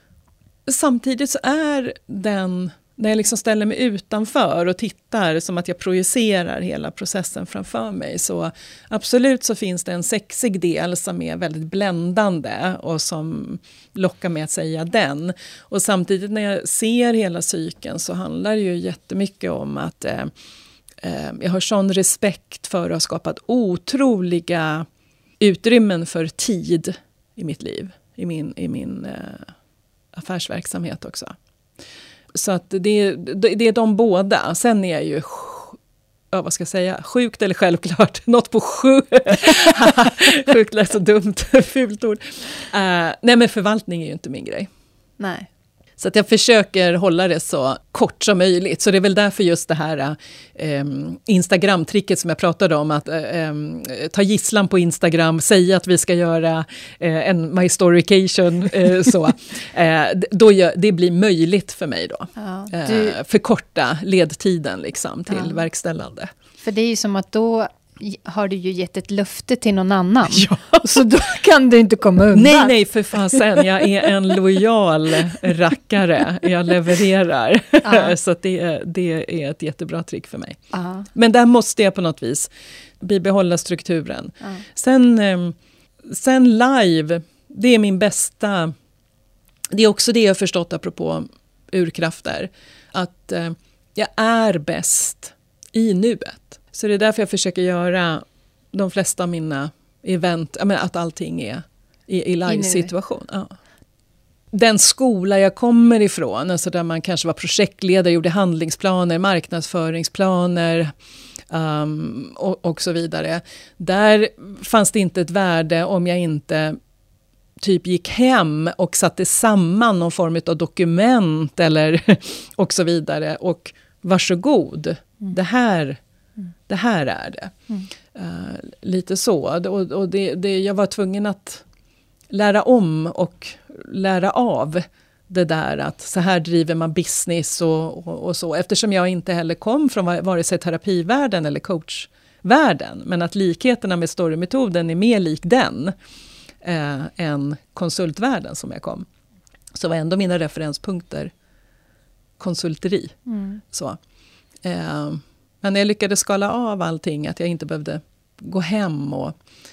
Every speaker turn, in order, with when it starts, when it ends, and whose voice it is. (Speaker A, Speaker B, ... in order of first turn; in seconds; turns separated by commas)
Speaker A: 0.7-20.3, Speaker A: 21.0-24.9, Speaker A: 25.4-29.5, Speaker A: 30.1-31.3, Speaker A: 32.3-35.8, Speaker A: 36.3-44.7, Speaker B: 45.2-45.5, Speaker A: 46.0-66.3, Speaker B: 62.4-63.2, Speaker B: 65.3-65.6, Speaker B: 66.6-73.9, Speaker A: 70.3-70.9, Speaker A: 72.3-80.6, Speaker B: 77.8-78.2, Speaker B: 80.7-81.1, Speaker A: 81.1-88.7, Speaker A: 89.7-103.5, Speaker B: 102.5-102.9, Speaker A: 104.5-110.9, Speaker A: 111.5-116.8, Speaker A: 117.6-126.0, Speaker A: 126.7-127.5, Speaker A: 128.1-131.6, Speaker A: 132.3-145.9, Speaker A: 146.6-149.1, Speaker A: 149.7-151.3, Speaker A: 152.4-153.2, Speaker B: 153.3-153.6, Speaker A: 153.7-154.0, Speaker A: 154.6-159.3